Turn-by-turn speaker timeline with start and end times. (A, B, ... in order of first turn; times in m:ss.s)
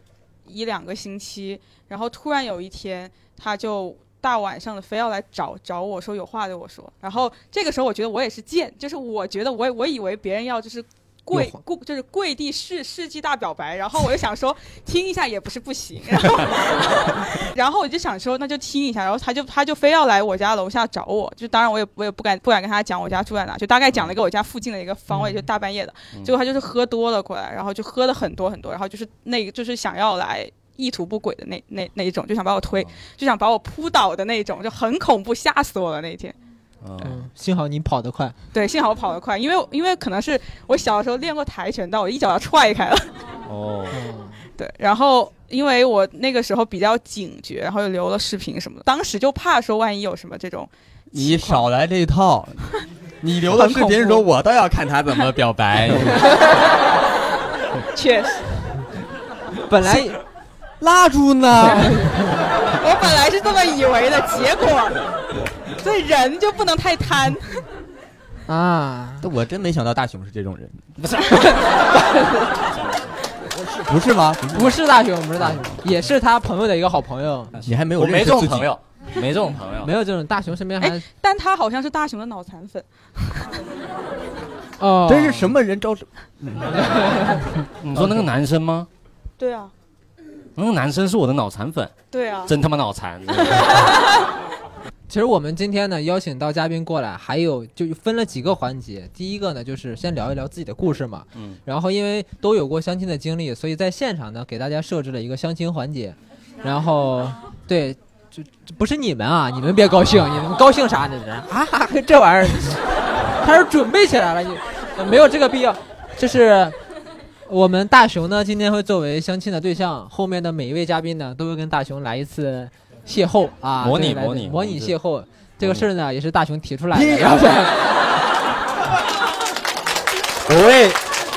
0:00.5-0:36.4 A
0:25.1-0:25.4 B
0:32.7-0:33.0 C
0:36.8-0:37.2 C
0:37.0-0:38.4 B
0:38.5-0:43.1 A
0:43.5-0:44.0 C
0:43.9-0:44.5 B
0:44.6-0:51.6 A
0:51.1-0:52.7 D
0:53.2-0:56.3 D
0:53.6-0:53.9 B
0:57.9-0:58.5 A
0:59.7-1:00.2 B
1:00.8-1:02.3 D
1:01.8-1:02.1 B
1:02.8-1:05.0 A
1:05.8-1:07.6 A
1:08.5-1:09.3 B
1:09.2-1:10.8 D
1:11.0-1:11.8 C
1:12.6-1:13.1 C
1:13.5-1:14.8 D
1:14.5-1:17.5 B
1:17.5-1:19.9 C
1:17.6-1:18.7 D
1:19.8-1:21.0 B
1:20.8-1:23.5 A
1:24.8-1:25.6 B
1:25.1-1:27.2 D
1:26.9-1:27.4 B
1:27.8-1:28.9 C
1:28.0-1:28.3 D
1:29.4-1:29.7 A
1:30.6-1:31.9 C
1:32.1-1:32.5 A
1:32.5-1:33.9 C
1:33.4-1:34.2 A
1:35.1-1:52.8 B
1:53.4-1:56.8 B
1:57.5-2:07.7 B
2:03.8-2:05.0 C
2:05.6-2:05.9 C
2:06.9-2:07.5 D
2:10.5-2:11.0 C